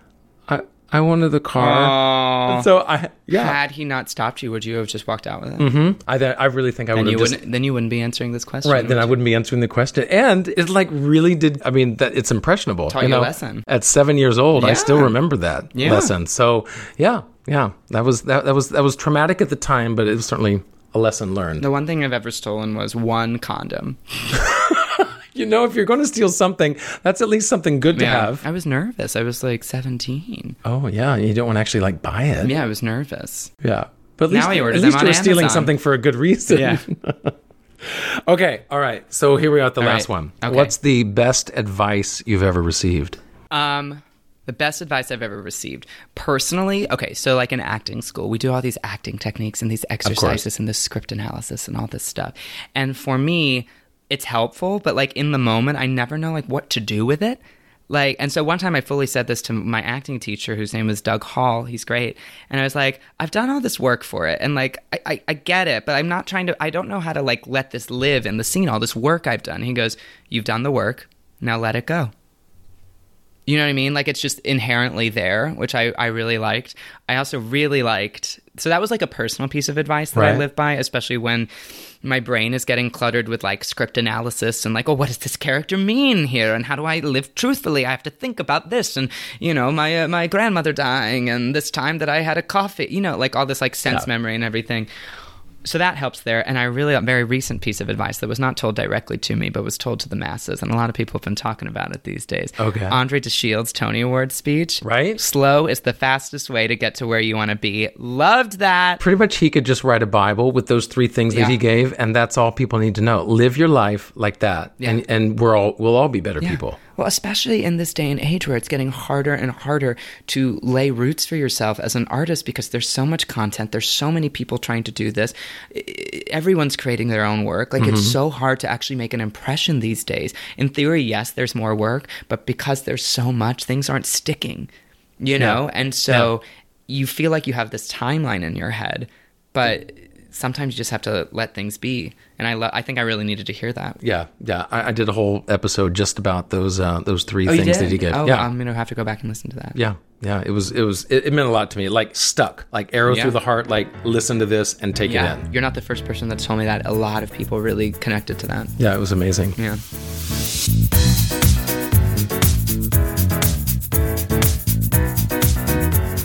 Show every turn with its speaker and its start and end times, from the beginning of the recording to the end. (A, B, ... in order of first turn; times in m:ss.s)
0:00.5-0:03.6 A
0:01.6-0:02.7 B
0:03.3-0:05.7 B
0:05.6-0:07.4 A
0:06.9-0:09.2 B
0:08.6-0:21.6 A
0:12.9-0:13.6 B
0:14.5-0:15.2 B
0:15.7-0:16.1 B
0:21.6-0:24.3 B
0:24.3-0:28.4 A
0:27.9-0:30.6 B
0:30.6-0:32.5 A
0:32.4-0:33.5 B
0:33.6-0:43.2 A
0:34.3-0:35.7 B
0:36.5-0:36.8 B
0:39.8-0:40.7 B
0:43.5-1:12.1 B
0:50.0-0:50.4 A
1:13.5-1:21.5 B
1:20.1-1:20.4 A
1:22.0-1:34.9 B
1:35.6-1:49.0 B
1:42.6-1:43.0 A
1:44.8-1:45.2 A
1:49.0-1:56.8 A
1:51.3-1:51.6 B
1:56.4-2:14.7 B
2:07.8-2:08.2 A
2:15.2-2:24.0 B
2:15.4-2:16.3 A
2:24.0-2:28.5 A
2:27.4-2:29.8 B
2:29.8-2:35.5 A
2:33.1-2:33.4 B
2:35.0-2:38.8 B
2:38.8-2:39.6 A